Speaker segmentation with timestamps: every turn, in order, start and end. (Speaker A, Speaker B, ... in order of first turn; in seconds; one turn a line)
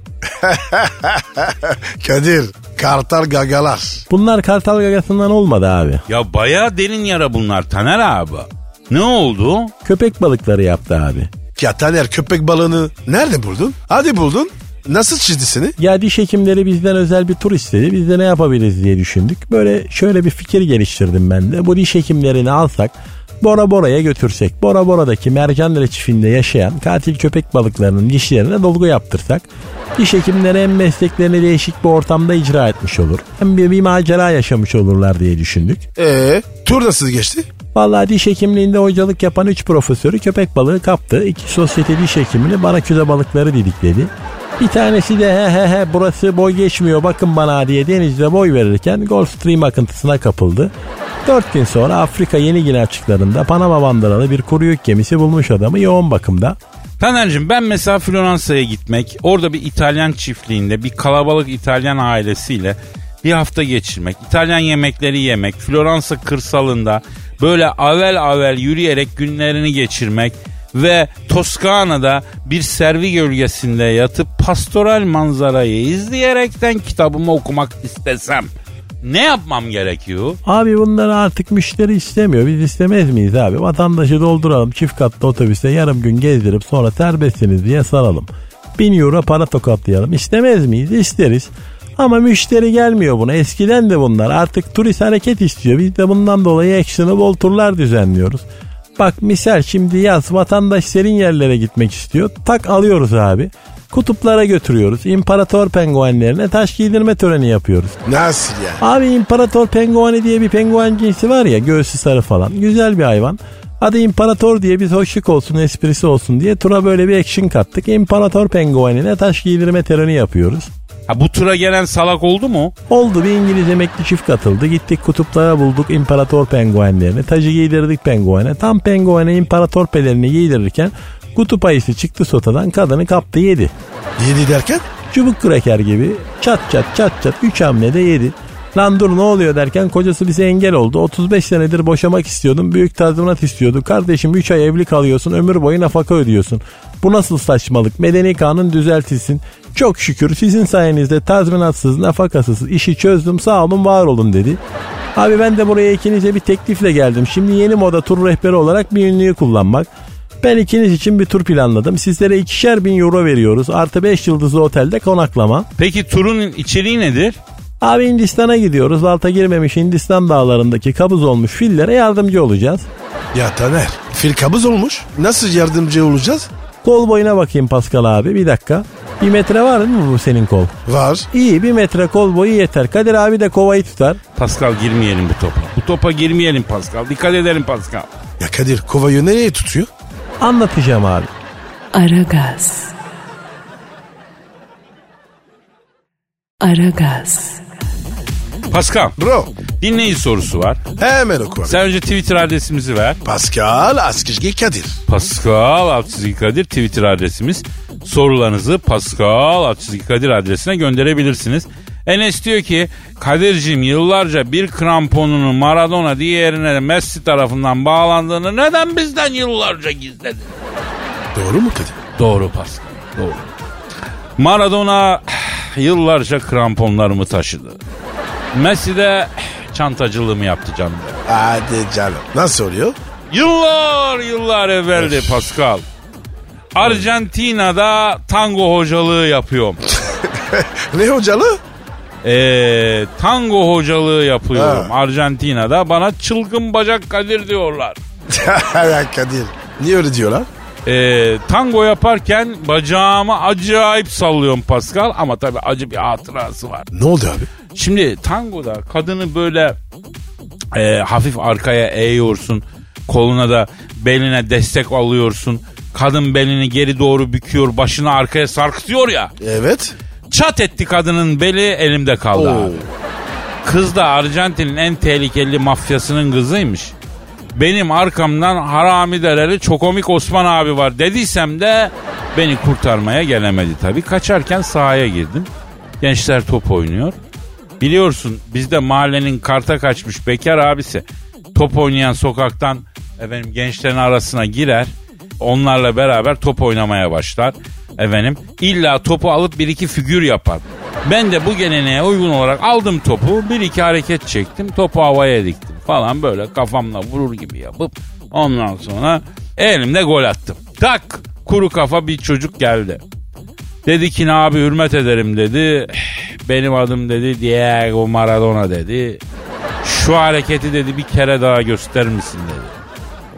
Speaker A: 0.2-4.0
Speaker B: 4.1-6.0
Speaker C: 6.1-9.7
Speaker B: 9.8-11.3
Speaker A: 11.6-15.8
Speaker B: 15.8-35.9
Speaker A: 36.0-37.5
Speaker B: 37.7-50.7
Speaker B: 51.2-56.6
Speaker C: 57.0-78.5
Speaker C: 79.0-80.4
Speaker B: 80.5-98.4
Speaker B: 99.0-108.0
Speaker A: 108.0-108.8
Speaker B: 108.8-120.7
Speaker C: 121.1-122.7
Speaker B: 122.9-133.7
Speaker A: 134.2-134.9
Speaker B: 135.1-154.6
Speaker B: 155.2-159.9
Speaker B: 160.4-165.7
Speaker C: 165.8-167.4
Speaker B: 167.8-172.9
Speaker A: 173.3-176.5
Speaker B: 176.8-180.7
Speaker A: 180.9-181.3
Speaker B: 181.3-184.2
Speaker C: 184.4-188.1
Speaker A: 188.4-189.9
Speaker B: 190.4-191.3
Speaker D: 191.9-192.9
Speaker D: 196.6-197.6
Speaker C: 198.7-199.2
Speaker A: 199.2-199.5
Speaker C: 199.8-200.8
Speaker A: 201.0-201.8
Speaker C: 201.7-203.2
Speaker A: 203.2-205.0
Speaker C: 205.1-220.5
Speaker A: 221.3-221.9
Speaker C: 222.2-223.5
Speaker C: 224.4-227.8
Speaker C: 228.5-231.2
Speaker A: 231.3-233.0
Speaker C: 233.3-235.8
Speaker A: 235.0-235.4
Speaker C: 236.8-239.8
Speaker A: 239.9-241.6
Speaker C: 242.2-248.0
Speaker A: 244.5-244.9
Speaker A: 248.3-250.5
Speaker C: 250.8-256.9
Speaker A: 256.9-257.5
Speaker C: 257.8-259.8
Speaker C: 260.7-269.3
Speaker A: 269.4-270.0
Speaker C: 270.3-272.8
Speaker A: 272.3-272.9
Speaker C: 273.6-276.9
Speaker C: 277.6-285.5
Speaker C: 286.0-287.1
Speaker C: 287.8-313.0
Speaker C: 313.9-319.2
Speaker C: 319.8-322.8